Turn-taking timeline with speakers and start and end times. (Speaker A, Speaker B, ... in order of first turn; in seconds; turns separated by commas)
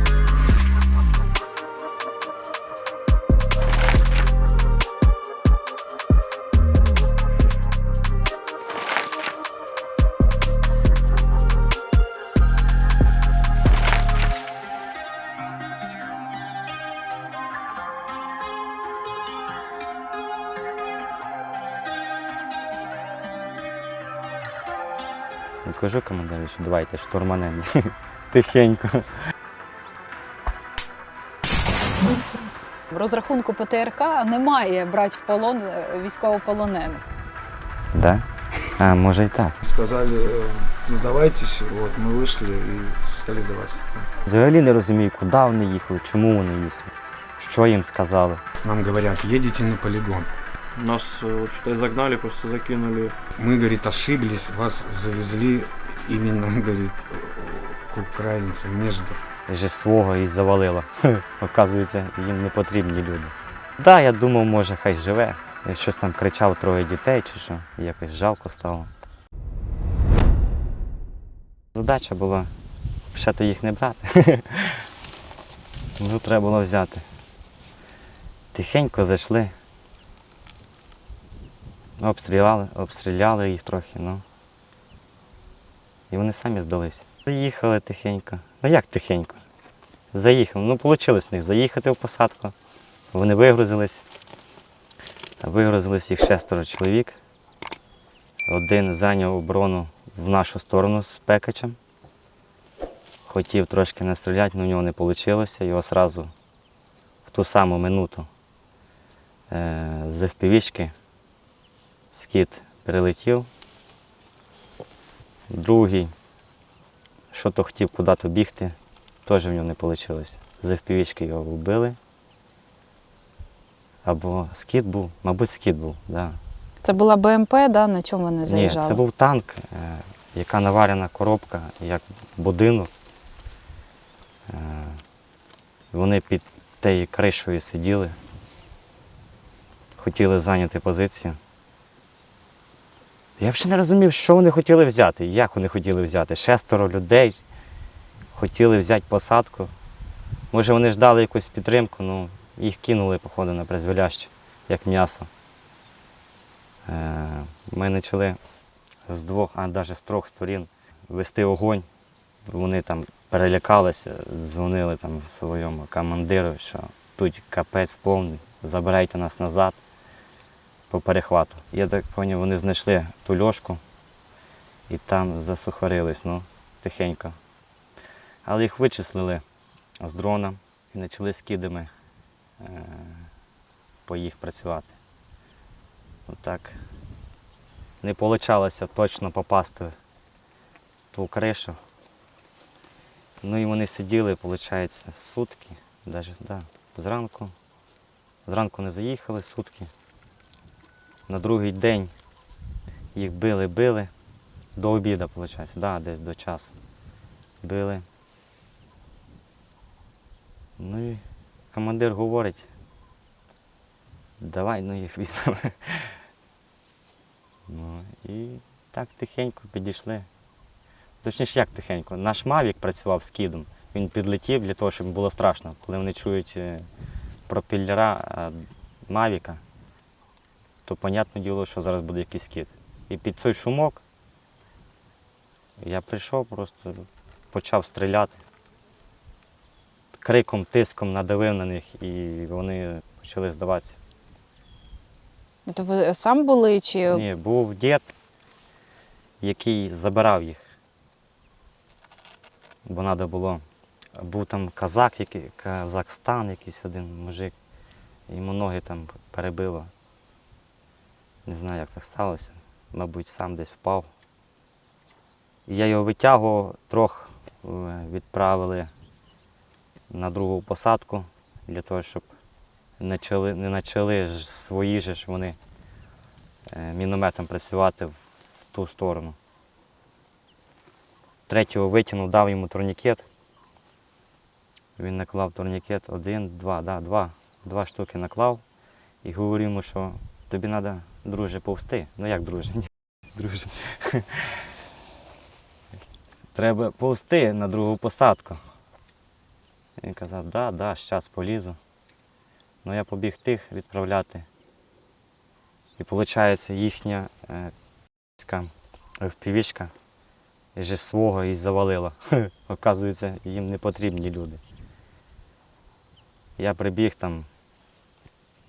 Speaker A: 25.6-29.2, Speaker B: 32.9-37.1, Speaker A: 37.9-38.2, Speaker A: 38.8-39.6, Speaker C: 39.6-44.1, Speaker A: 44.3-48.4, Speaker D: 48.6-50.3, Speaker E: 50.8-53.2, Speaker D: 53.4-59.2, Speaker A: 59.5-68.9, Speaker A: 71.7-72.5, Speaker A: 73.1-74.9, Speaker A: 76.0-77.1, Speaker A: 78.5-79.5, Speaker A: 82.0-84.2, Speaker A: 86.1-89.4, Speaker A: 90.1-92.5, Speaker A: 93.1-94.1, Speaker A: 95.4-97.2, Speaker A: 98.5-101.8, Speaker A: 103.2-106.3, Speaker A: 107.3-108.3, Speaker A: 109.5-110.9, Speaker A: 112.1-113.5, Speaker A: 115.5-116.1, Speaker A: 117.3-122.0, Speaker A: 124.0-126.4, Speaker B: 126.8-129.0, Speaker A: 128.5-132.9, Speaker A: 134.5-135.0, Speaker A: 135.9-138.2, Speaker A: 140.0-141.4, Speaker A: 143.4-147.4, Speaker A: 148.3-149.7, Speaker A: 150.5-155.3, Speaker A: 156.9-158.4, Speaker A: 159.1-161.9, Speaker A: 162.5-169.8, Speaker A: 170.9-173.8, Speaker A: 174.9-177.4, Speaker A: 178.4-179.4, Speaker A: 180.0-181.9, Speaker A: 182.6-183.3, Speaker A: 184.1-184.9, Speaker A: 186.3-186.8, Speaker A: 188.0-190.0, Speaker A: 191.1-191.8, Speaker A: 193.4-197.5, Speaker A: 198.4-199.9, Speaker A: 201.3-202.1, Speaker A: 203.2-204.1, Speaker A: 204.8-206.7, Speaker A: 207.6-208.1, Speaker A: 210.8-212.7, Speaker A: 214.4-216.2, Speaker A: 217.7-220.3, Speaker A: 221.2-226.9, Speaker A: 227.5-229.6, Speaker A: 230.8-234.0, Speaker A: 235.8-238.4, Speaker A: 240.2-244.0, Speaker B: 245.7-247.2, Speaker A: 247.1-248.1, Speaker A: 249.4-250.7, Speaker A: 252.8-253.6, Speaker A: 254.2-257.6, Speaker A: 258.3-259.9, Speaker A: 261.5-264.1, Speaker A: 265.7-268.9, Speaker A: 270.1-272.3, Speaker A: 273.0-275.6, Speaker A: 276.7-278.2, Speaker A: 278.7-279.4, Speaker A: 281.5-283.3, Speaker A: 285.0-288.6, Speaker A: 289.2-294.7, Speaker A: 296.5-298.6, Speaker A: 300.0-301.8, Speaker A: 302.8-304.5, Speaker A: 306.0-307.7, Speaker A: 308.4-309.9, Speaker A: 310.8-314.6, Speaker A: 316.6-317.5